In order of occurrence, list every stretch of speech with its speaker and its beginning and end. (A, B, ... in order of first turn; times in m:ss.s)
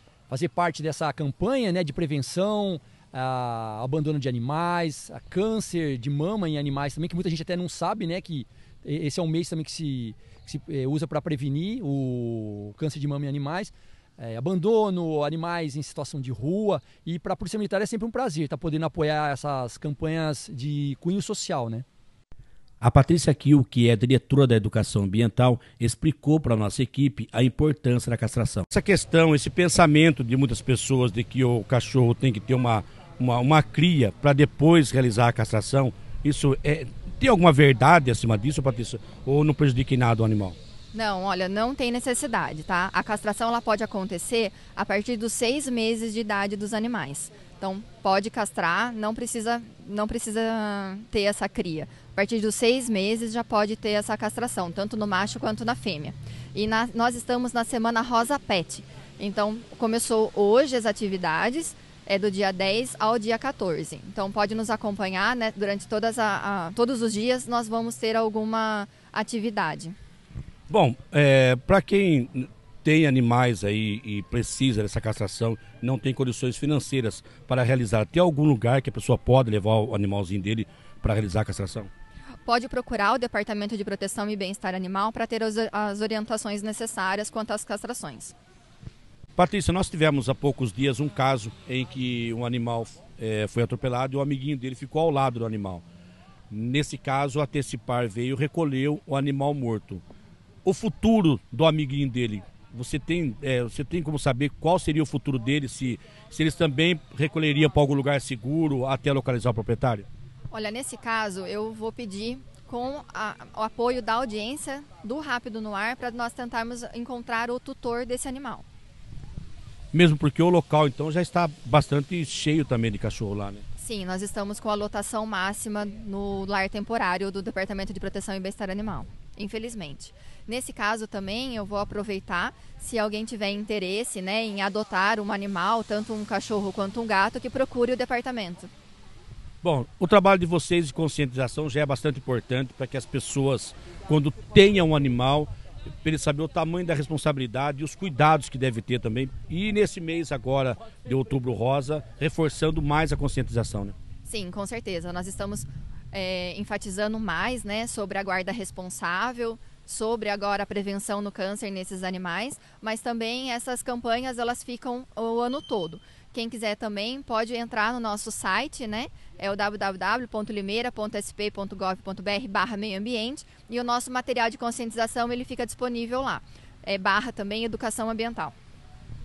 0:00.3-0:21.8 A
0:22.8-0:40.6 B
0:40.9-1:10.0 C
1:10.7-1:21.9 B
1:22.5-1:28.3 C
1:29.4-1:35.8 B
1:36.5-1:40.0 B
1:40.6-1:50.1 B
1:50.5-1:58.6 C
1:59.9-2:03.6 B
2:03.8-2:18.7 C
2:19.6-2:25.5 B
2:26.0-2:34.0 B
2:34.2-2:58.5 C